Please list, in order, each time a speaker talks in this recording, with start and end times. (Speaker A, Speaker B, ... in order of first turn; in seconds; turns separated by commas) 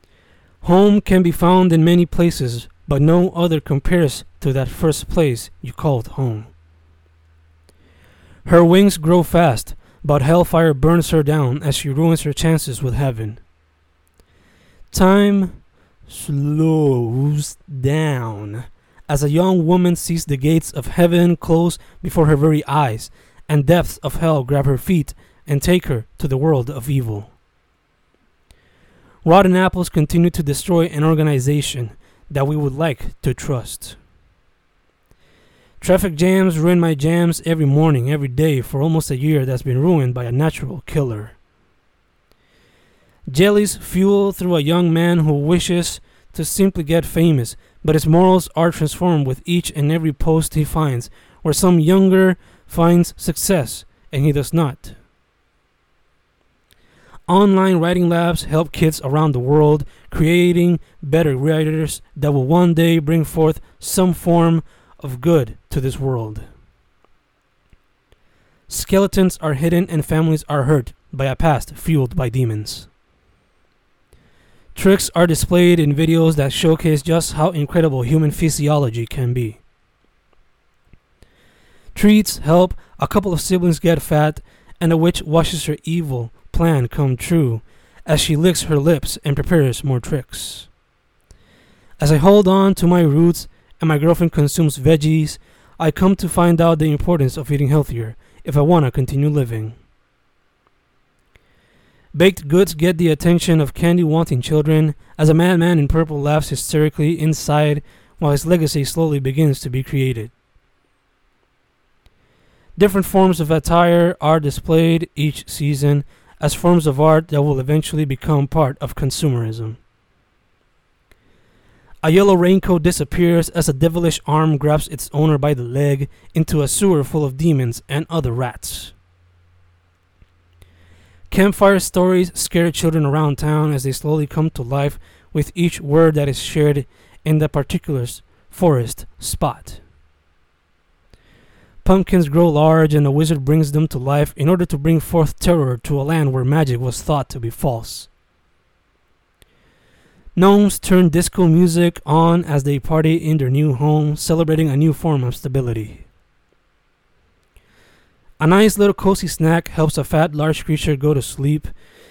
Speaker A: 0.6-6.5, Speaker A: 8.4-13.4, Speaker A: 14.9-27.3, Speaker A: 29.2-34.0, Speaker A: 35.8-41.4, Speaker A: 43.3-55.0, Speaker A: 57.3-66.5, Speaker A: 68.7-72.9, Speaker A: 74.8-79.6, Speaker A: 82.0-90.7, Speaker A: 92.0-99.8, Speaker A: 102.1-110.3, Speaker A: 112.8-119.8, Speaker A: 122.0-128.9, Speaker A: 131.3-139.8, Speaker A: 141.8-148.1, Speaker A: 150.4-156.1, Speaker A: 158.4-161.7